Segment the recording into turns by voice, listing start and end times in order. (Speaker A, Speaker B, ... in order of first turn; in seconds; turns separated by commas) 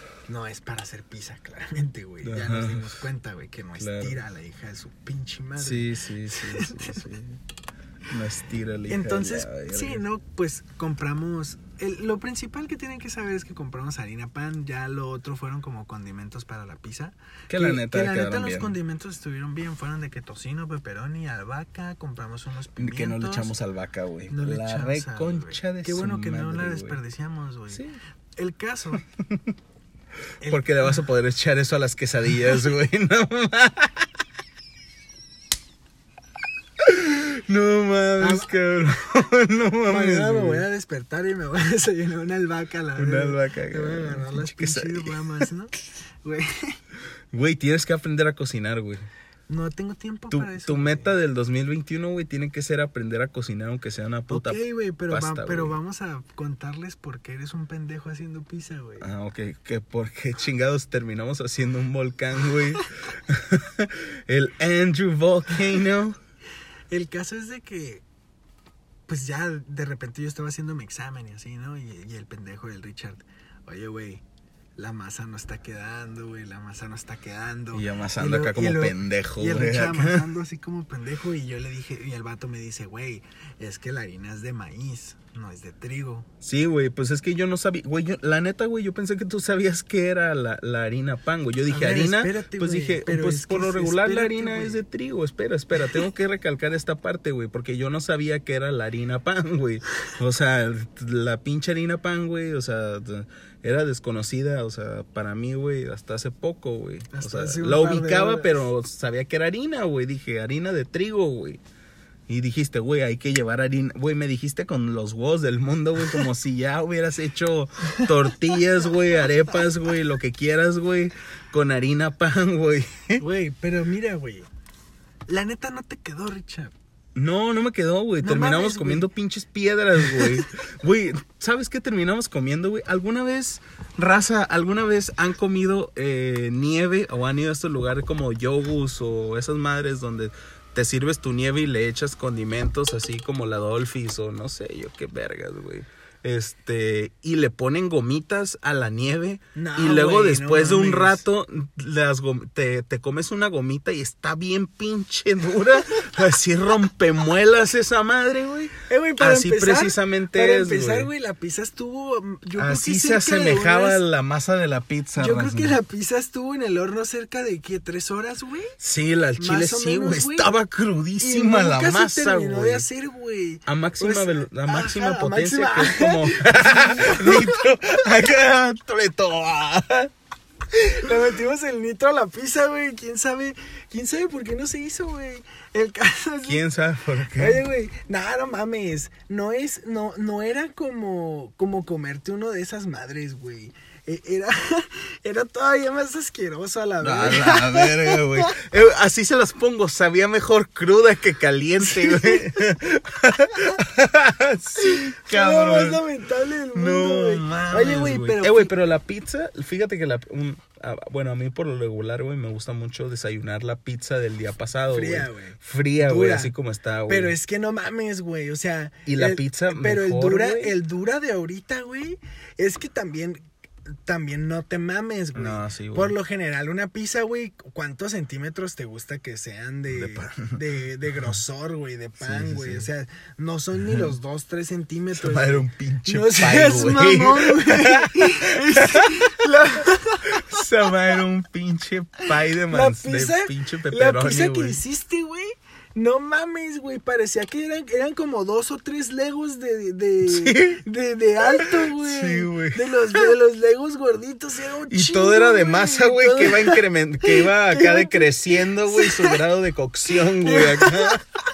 Speaker A: 0.3-7.0, Speaker B: 2.2-3.0, Speaker B: 3.8-4.2, Speaker B: 5.6-7.4, Speaker B: 8.1-10.0, Speaker A: 8.9-23.5, Speaker B: 17.5-18.7, Speaker B: 22.8-27.0, Speaker A: 24.3-27.8, Speaker B: 27.7-27.9, Speaker A: 28.4-29.0, Speaker B: 29.2-29.5, Speaker A: 30.4-30.9, Speaker B: 30.5-34.1, Speaker B: 36.8-40.6, Speaker A: 38.2-38.5, Speaker A: 39.9-46.8, Speaker B: 43.0-45.4, Speaker B: 47.3-49.1, Speaker A: 49.5-51.1, Speaker B: 50.3-55.8, Speaker A: 54.3-59.1, Speaker B: 59.0-66.2, Speaker A: 66.9-68.0, Speaker A: 69.1-74.2, Speaker A: 74.8-86.3, Speaker B: 77.7-80.2, Speaker B: 86.4-111.6, Speaker A: 91.7-94.8, Speaker A: 107.1-108.7, Speaker B: 112.3-123.2, Speaker A: 123.2-124.5, Speaker A: 125.3-126.7, Speaker B: 127.1-161.1, Speaker A: 128.2-129.1, Speaker A: 130.1-130.4, Speaker A: 149.5-151.2, Speaker A: 158.9-164.0, Speaker B: 162.6-165.8, Speaker A: 165.2-168.7, Speaker B: 168.8-172.8, Speaker A: 169.4-170.5, Speaker A: 171.2-177.7, Speaker B: 173.7-180.1, Speaker A: 180.7-186.6, Speaker B: 186.4-187.6, Speaker A: 187.3-198.6, Speaker B: 197.0-206.1, Speaker A: 201.8-202.6, Speaker A: 204.8-208.7, Speaker B: 206.7-217.3, Speaker A: 214.9-216.5, Speaker A: 217.1-223.4, Speaker B: 219.1-220.8, Speaker A: 224.0-240.6, Speaker B: 225.3-226.1, Speaker B: 229.9-230.6, Speaker B: 232.2-232.8, Speaker B: 235.2-239.5, Speaker B: 240.3-244.8, Speaker A: 242.7-259.4, Speaker B: 250.2-250.8, Speaker B: 251.4-253.3, Speaker B: 254.9-261.2, Speaker A: 260.4-261.2